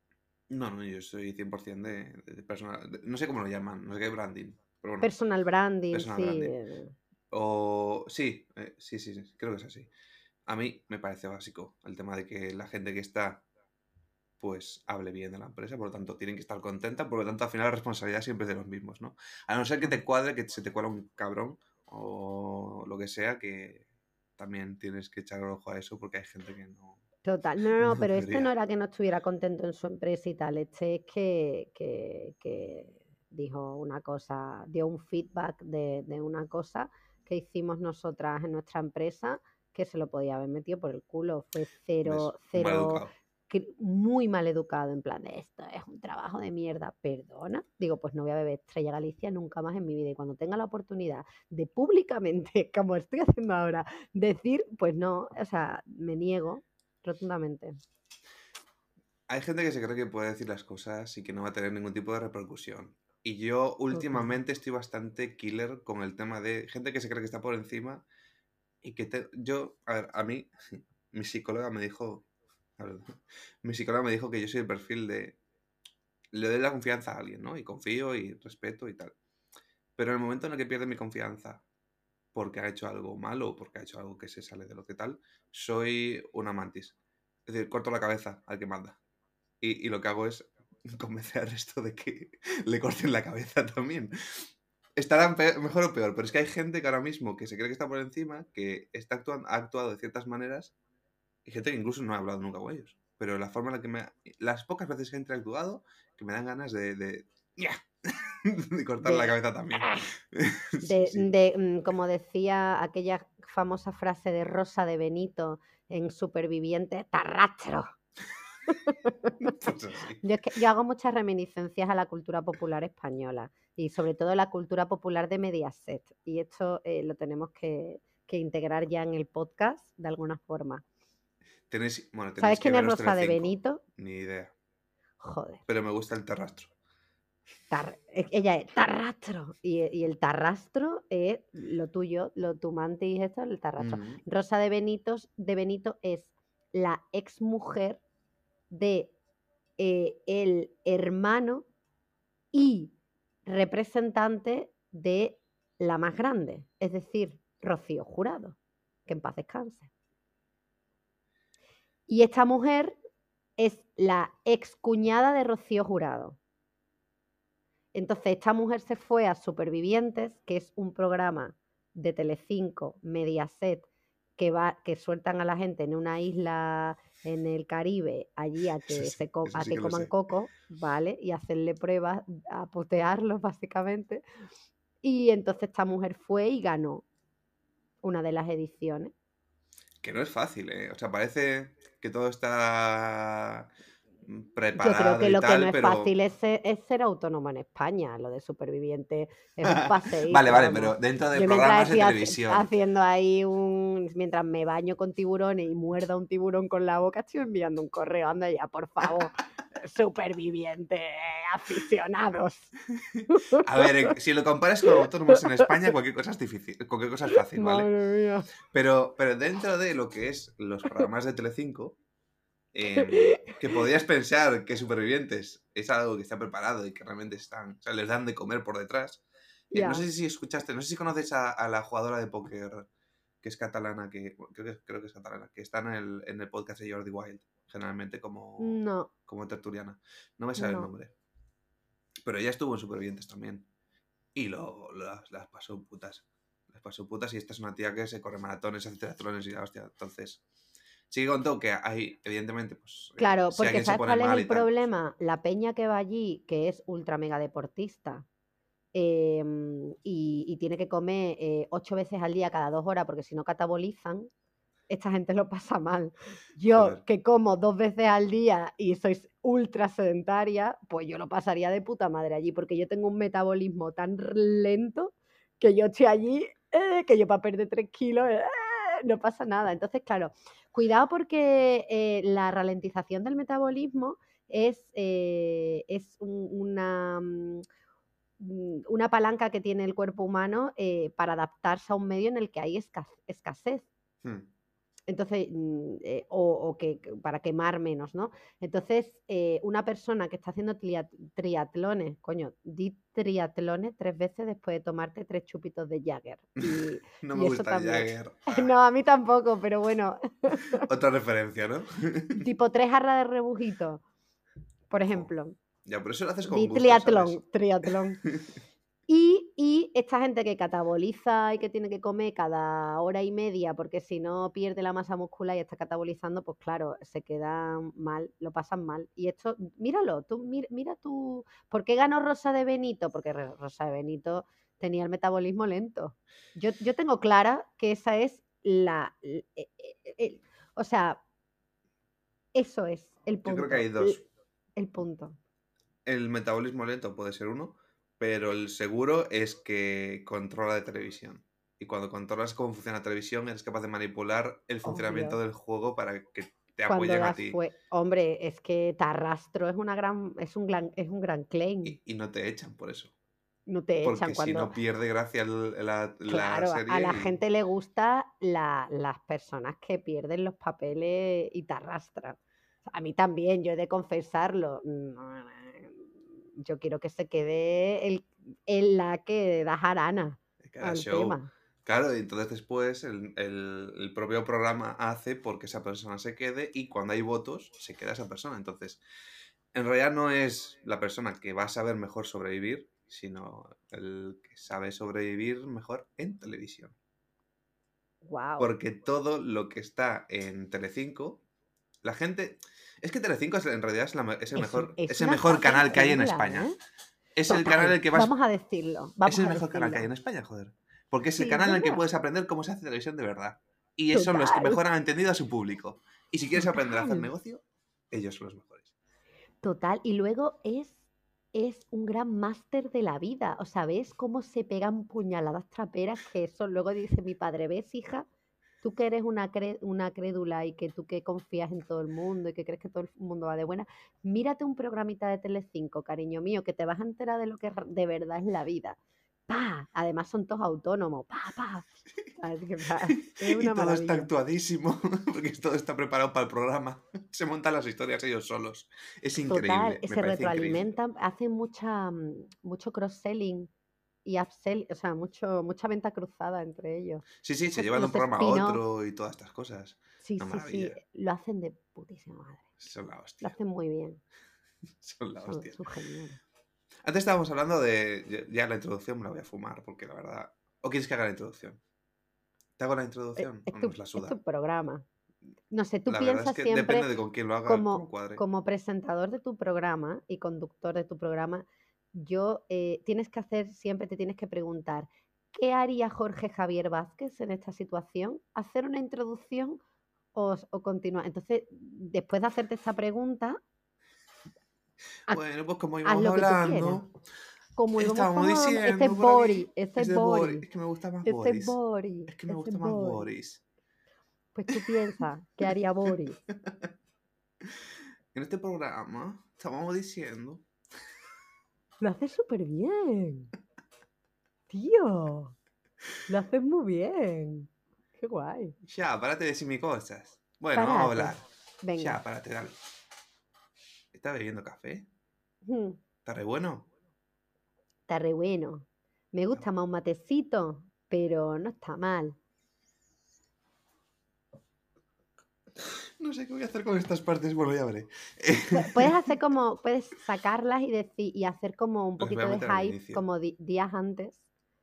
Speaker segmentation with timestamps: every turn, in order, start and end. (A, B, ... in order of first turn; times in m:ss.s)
0:00.5-0:05.1 A
0:05.0-0:06.9 B
0:05.9-0:06.5 A
0:07.3-0:09.9 A
0:10.5-0:13.4 A
0:14.4-0:23.8 A
0:24.4-0:27.0 A
0:27.2-0:57.8 B
0:27.8-0:28.5 A
0:42.0-0:43.1 A
0:59.3-1:08.0 A
1:03.9-1:04.3 B
1:08.8-1:12.3 A
1:12.8-1:15.4 A
1:16.3-1:19.2 A
1:20.0-1:21.6 A
1:22.3-1:27.0 A
1:27.5-1:29.0 A
1:29.6-1:40.7 A
1:41.4-1:51.3 A
1:49.0-1:50.0 B
1:50.8-1:58.0 B
1:58.7-1:59.3 B
1:59.4-2:00.2 A
2:00.2-2:10.8 B
2:11.7-2:14.5 A
2:12.4-2:13.8 B
2:15.2-2:15.6 B
2:15.7-2:16.7 A
2:17.7-2:28.0 B
2:23.8-2:24.2 A
2:28.7-2:29.1 B
2:29.8-2:31.7 B
2:32.5-2:32.9 B
2:33.5-2:39.9 B
2:42.1-2:43.0 B
2:43.6-2:46.4 B
2:47.9-3:04.2 B
2:58.8-3:00.1 A
3:05.0-3:07.0 B
3:08.0-3:09.1 B
3:10.0-3:13.7 A
3:14.2-3:16.1 A
3:14.8-3:32.8 B
3:19.6-3:22.7 A
3:32.9-3:37.9 A
3:33.3-3:34.1 B
3:34.8-3:35.7 B
3:37.3-3:38.5 B
3:38.7-3:42.0 A
3:42.7-3:52.9 A
3:43.0-3:43.6 B
3:49.7-3:50.0 B
3:53.4-4:01.1 A
3:58.6-3:59.1 B
4:00.6-4:00.9 B
4:02.2-4:03.7 A
4:04.4-4:10.4 A
4:11.1-4:14.7 A
4:13.2-4:18.2 B
4:18.9-4:24.3 B
4:24.9-4:47.6 B
4:26.7-4:27.0 A
4:48.4-4:53.9 B
4:55.1-5:10.9 B
5:06.6-5:08.7 A
5:10.6-5:12.5 A
5:12.4-5:14.0 B
5:14.9-5:15.6 B
5:15.8-5:17.4 A
5:16.5-5:18.2 B
5:19.1-5:41.2 B
5:42.6-5:44.2 B
5:43.4-5:44.2 A
5:44.8-5:45.4 B
5:46.1-5:57.6 A
5:54.8-5:55.4 B
5:56.9-6:02.0 B
6:01.8-6:03.1 A
6:03.7-6:04.7 B
6:04.0-6:07.4 A
6:06.3-6:21.5 B
6:20.6-6:29.0 A
6:29.7-6:37.0 A
6:38.2-6:38.7 B
6:38.6-6:41.4 A
6:42.0-6:46.7 A
6:44.6-6:46.8 B
6:47.4-6:48.3 A
6:47.5-6:50.1 B
6:49.2-6:58.9 A
6:51.4-6:52.0 B
6:54.1-6:54.8 B
6:56.6-6:57.3 B
6:59.6-7:08.3 B
7:08.8-7:19.0 B
7:19.5-7:24.3 B
7:23.1-7:30.9 A
7:29.5-7:33.7 B
7:34.2-7:38.8 B
7:37.4-7:41.0 A
7:40.2-7:42.8 B
7:42.8-7:43.6 A
7:43.4-7:44.2 B
7:45.0-7:45.8 A
7:45.4-7:46.4 B
7:47.0-7:51.8 A
7:52.8-7:54.4 A
7:53.4-7:55.0 B
7:55.7-7:57.1 B
7:56.1-7:58.4 A
7:57.6-8:09.8 B
8:10.4-8:13.6 B
8:15.3-8:17.1 A
8:16.0-8:17.0 B
8:17.8-8:20.6 B
8:18.0-8:23.6 A
8:21.2-8:23.3 B
8:24.6-8:26.4 B
8:24.7-8:24.9 A
8:28.3-8:30.6 A
8:32.0-8:33.5 B
8:34.7-8:35.6 B
8:36.3-8:38.8 B
8:38.8-8:41.4 A
8:40.7-8:42.2 B
8:42.0-8:42.8 A
8:44.1-8:45.1 A
8:45.6-8:46.0 B
8:46.2-8:46.9 A
8:48.1-8:52.4 B
8:55.8-8:59.2 A
8:58.7-9:04.4 B
9:02.2-9:03.2 A